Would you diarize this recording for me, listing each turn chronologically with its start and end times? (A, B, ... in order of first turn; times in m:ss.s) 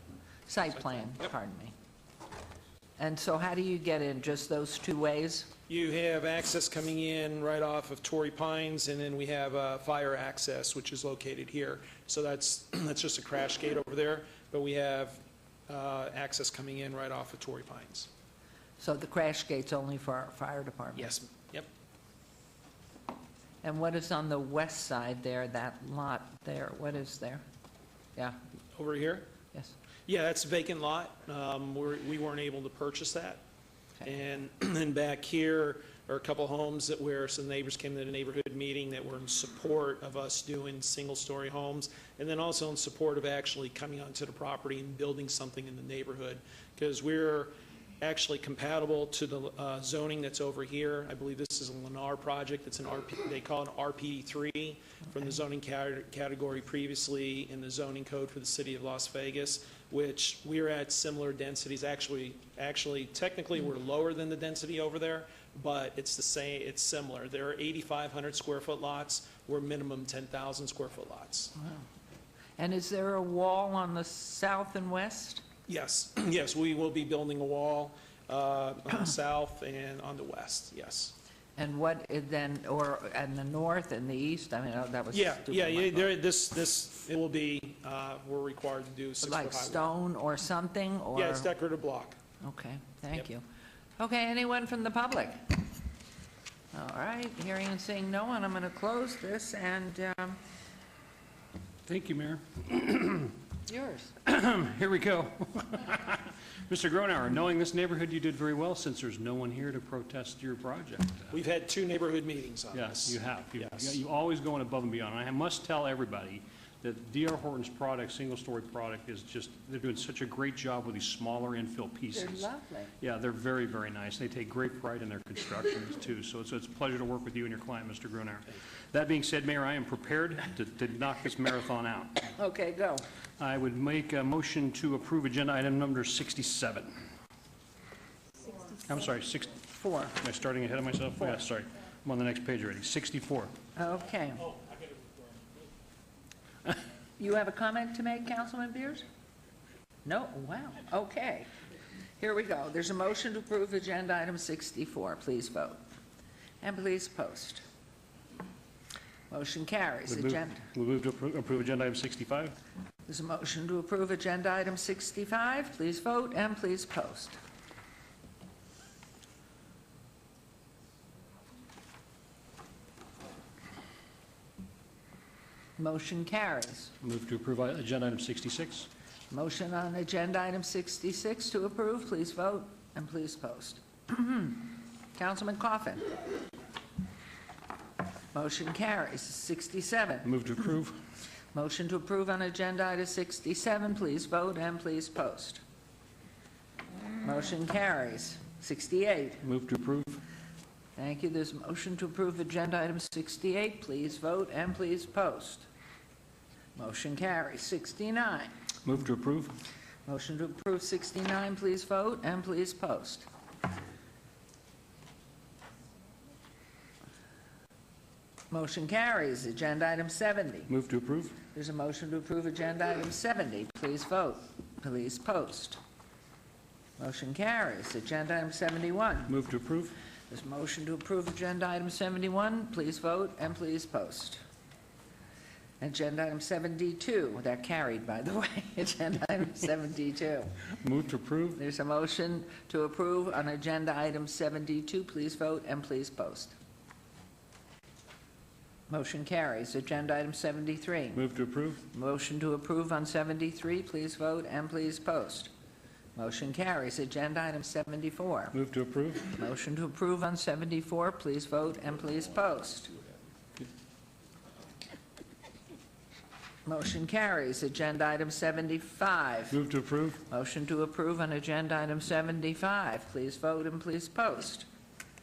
0:00.5-0:01.7 A
0:03.0-0:05.5 A
0:05.7-0:18.1 B
0:18.8-0:21.2 A
0:21.0-0:21.7 B
0:23.6-0:27.4 A
0:28.8-0:29.3 B
0:30.1-0:33.4 B
0:34.0-1:11.5 B
1:11.6-1:11.9 A
1:12.6-1:15.4 A
1:15.7-1:21.1 B
1:21.6-1:26.1 A
1:25.1-1:29.9 B
1:29.2-1:31.5 A
1:31.2-1:32.2 B
1:32.4-1:33.4 A
1:34.0-1:35.6 A
1:36.7-1:40.4 A
1:41.9-1:43.4 C
1:43.7-1:44.2 A
1:44.2-1:51.4 C
1:51.3-1:54.0 B
1:52.7-2:02.5 C
2:02.1-2:02.9 A
2:03.0-2:12.3 C
2:12.3-2:13.1 A
2:13.4-2:16.9 C
2:18.8-2:23.6 C
2:23.8-2:24.5 A
2:27.2-2:29.1 A
2:30.0-2:31.5 A
2:32.2-2:35.8 A
2:36.6-2:37.6 A
2:39.3-2:40.7 A
2:40.1-2:42.6 C
2:43.1-2:47.4 A
2:55.8-2:56.9 A
2:57.0-2:58.9 C
2:59.3-3:06.2 A
3:08.3-3:10.3 A
3:10.2-3:11.0 C
3:11.5-3:15.6 A
3:17.2-3:19.4 A
3:19.4-3:20.2 C
3:21.0-3:25.7 A
3:26.8-3:28.5 A
3:28.8-3:29.6 C
3:30.1-3:33.3 A
3:38.5-3:40.7 A
3:40.7-3:41.4 C
3:41.5-3:45.8 A
3:47.0-3:49.4 A
3:49.3-3:49.9 C
3:50.3-3:54.4 A
3:55.8-4:00.6 A
4:00.8-4:01.6 C
4:01.6-4:06.5 A
4:08.9-4:11.2 A
4:11.2-4:11.8 C
4:11.9-4:15.5 A
4:16.2-4:18.6 A
4:18.5-4:19.4 C
4:19.3-4:23.0 A
4:26.7-4:29.6 A
4:29.5-4:30.2 C
4:30.2-4:34.7 A